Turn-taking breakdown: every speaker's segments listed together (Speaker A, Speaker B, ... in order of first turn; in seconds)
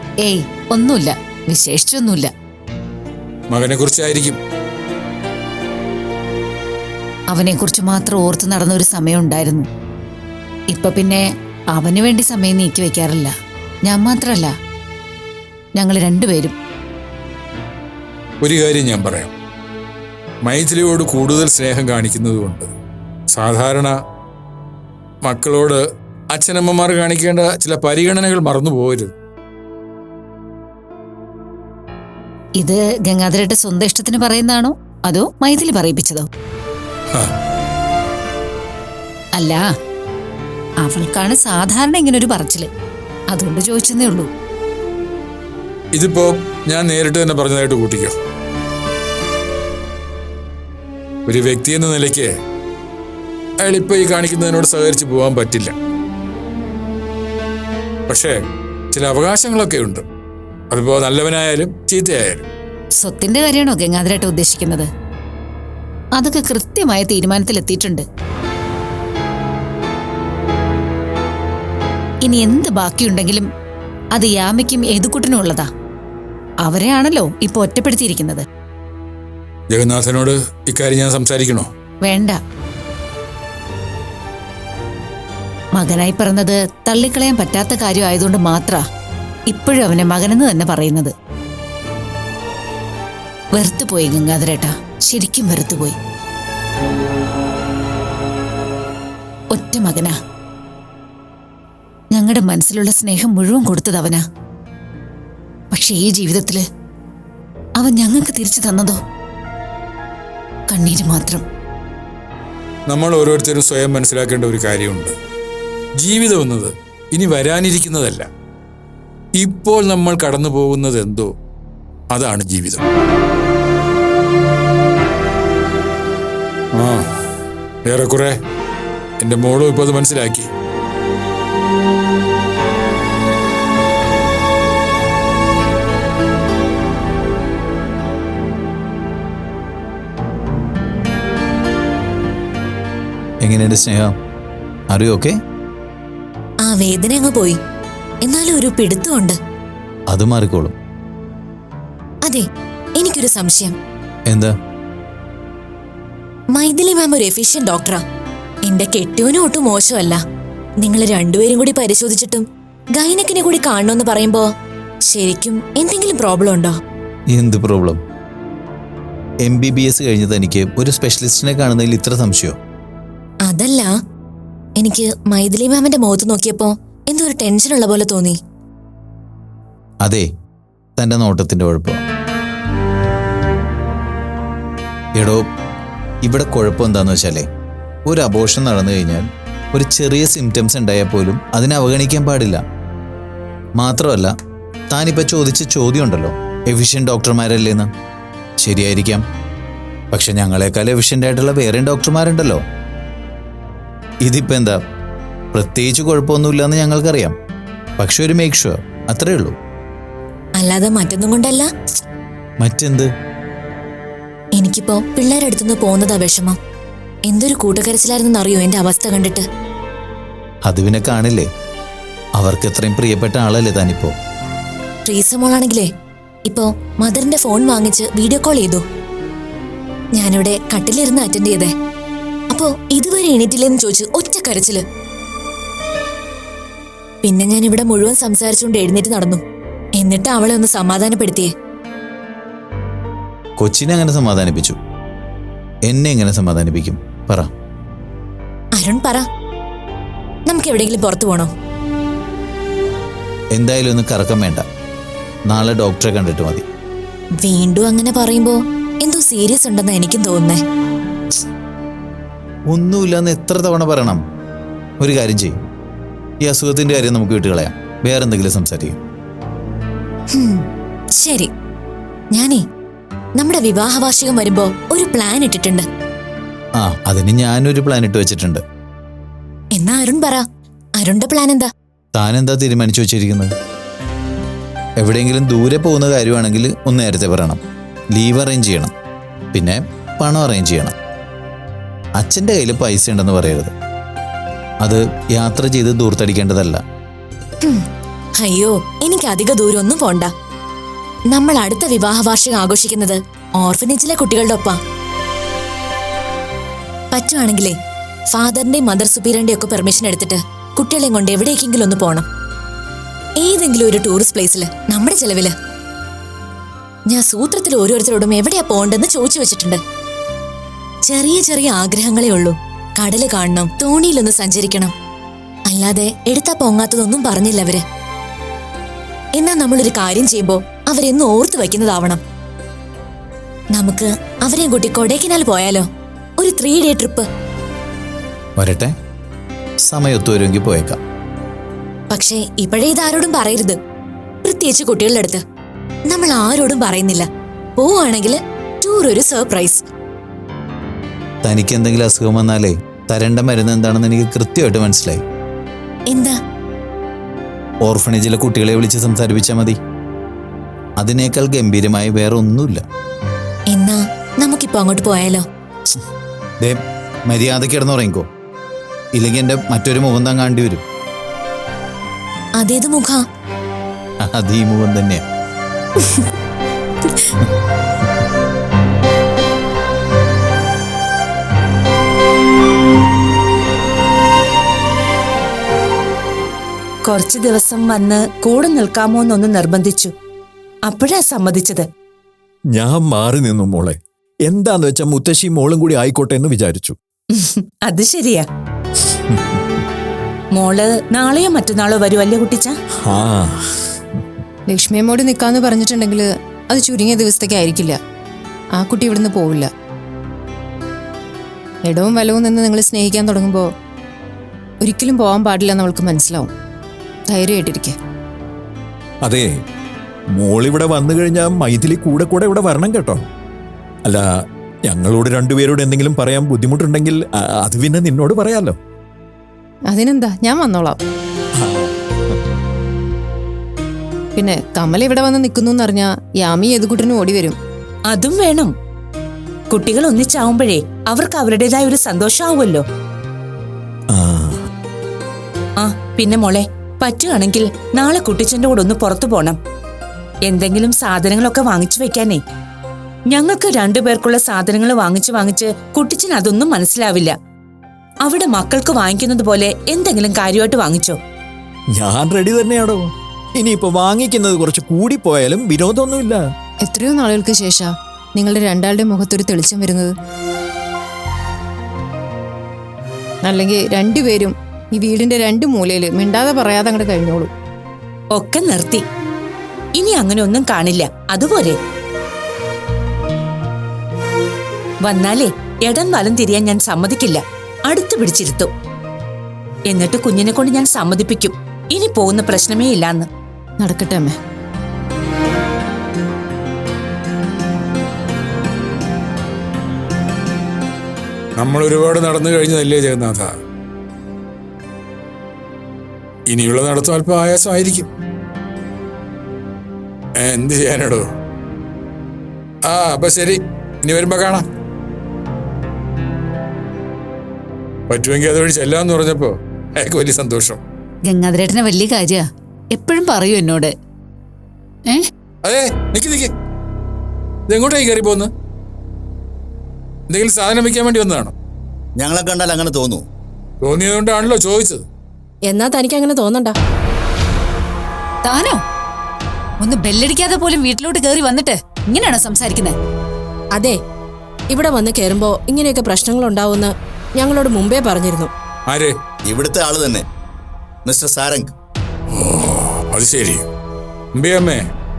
Speaker A: 0.2-2.3, 7.3-9.7, 10.7-13.3, 13.8-14.5, 15.8-16.5, 32.6-36.3, 39.4-39.6, 40.8-42.7, 43.3-44.3, 63.0-64.9, 66.2-68.0, 72.2-73.5, 74.1-75.7, 76.6-78.4, 82.0-82.4, 85.8-88.8, 89.5-91.1, 93.5-96.0, 99.5-100.1, 102.1-104.2, 105.7-106.6, 107.8-109.0, 110.7-111.4, 521.2-523.9, 538.4-538.8, 539.8-542.9
Speaker B: 3.5-4.4, 18.4-19.3, 20.4-22.7, 23.3-23.9, 25.2-25.8, 26.3-29.1, 45.9-48.1, 51.3-52.3, 53.6-55.7, 58.1-58.3, 58.9-60.0, 60.7-62.4, 79.7-81.7, 112.9-115.1, 116.0-118.2, 119.4-121.3, 122.1-122.8, 126.8-127.0, 127.9-128.3, 129.2-130.5, 501.6-503.5, 506.5-508.1, 510.4-511.2, 512.9-514.6, 518.1-520.8, 525.6-526.5, 527.7-528.5, 530.3-531.5, 533.8-535.0, 552.3-553.6, 554.4-554.8
Speaker C: 143.4-144.1, 144.9-145.3, 150.1-150.7, 154.3-154.5, 167.3-168.0, 169.4-172.6, 181.0-182.0, 185.2-185.4, 186.2-187.4, 188.1-192.6, 193.8-194.3, 194.9-197.9, 198.6-199.2, 200.1-202.6, 204.2-204.8, 205.5-207.3, 208.0-209.5, 212.6-213.1, 220.7-221.4, 222.4-224.1, 243.6-244.8, 245.8-247.5, 253.5-254.6, 255.5-256.6, 262.7-264.2, 265.0-265.6, 266.4-268.9, 276.8-278.6, 282.1-283.5, 285.0-287.6, 288.1-288.9, 289.5-290.9, 292.2-293.7, 294.8-296.8, 338.6-338.9, 339.9-341.0, 351.4-355.2, 357.8-359.8, 361.0-362.8, 366.6-368.2, 369.1-370.8, 374.2-375.2
Speaker D: 146.6-147.6, 148.2-149.3, 152.9-153.7, 156.5-158.0, 158.6-160.2, 160.8-164.4, 165.1-166.7, 173.4-173.9, 174.8-178.3, 210.6-211.7, 214.6-216.5, 217.3-219.4, 225.1-225.8, 226.4-228.8, 230.2-231.7, 232.5-234.8, 237.2-239.4, 240.0-241.5, 248.8-249.2, 250.5-251.5, 257.4-260.6, 270.3-271.5, 272.3-272.6, 273.4-275.9, 279.7-280.4, 281.0-281.6, 298.4-300.3, 301.3-304.8, 307.1-307.7, 308.3-312.2, 313.4-315.5, 317.1-319.8, 321.1-324.9, 325.7-327.8, 329.4-332.2, 333.7-335.9, 336.4-337.2, 342.1-343.8, 344.4-345.4, 346.1-347.2, 347.8-349.9, 356.1-356.3, 363.7-365.4, 372.6-373.2
Speaker E: 387.0-390.1, 390.9-391.9, 397.3-398.4, 400.5-402.8, 438.1-438.7, 439.7-442.9, 445.8-449.6, 450.4-452.4, 453.3-457.4, 458.2-461.2, 478.3-479.1, 479.9-481.8, 485.0-488.7, 489.9-493.3
Speaker F: 392.7-396.9, 403.0-403.6, 419.2-419.6, 420.3-423.2, 424.0-428.8, 431.6-431.9, 444.1-444.6, 461.9-466.4
Speaker G: 404.7-408.0, 408.8-409.7, 411.8-413.6, 414.8-416.5, 417.3-417.9, 429.9-431.0, 434.4-437.6, 466.8-470.1, 473.4-477.5, 493.8-494.3
Speaker H: 532.2-533.2, 549.5-550.2, 551.0-551.7
Speaker I: 535.7-536.7, 544.7-548.5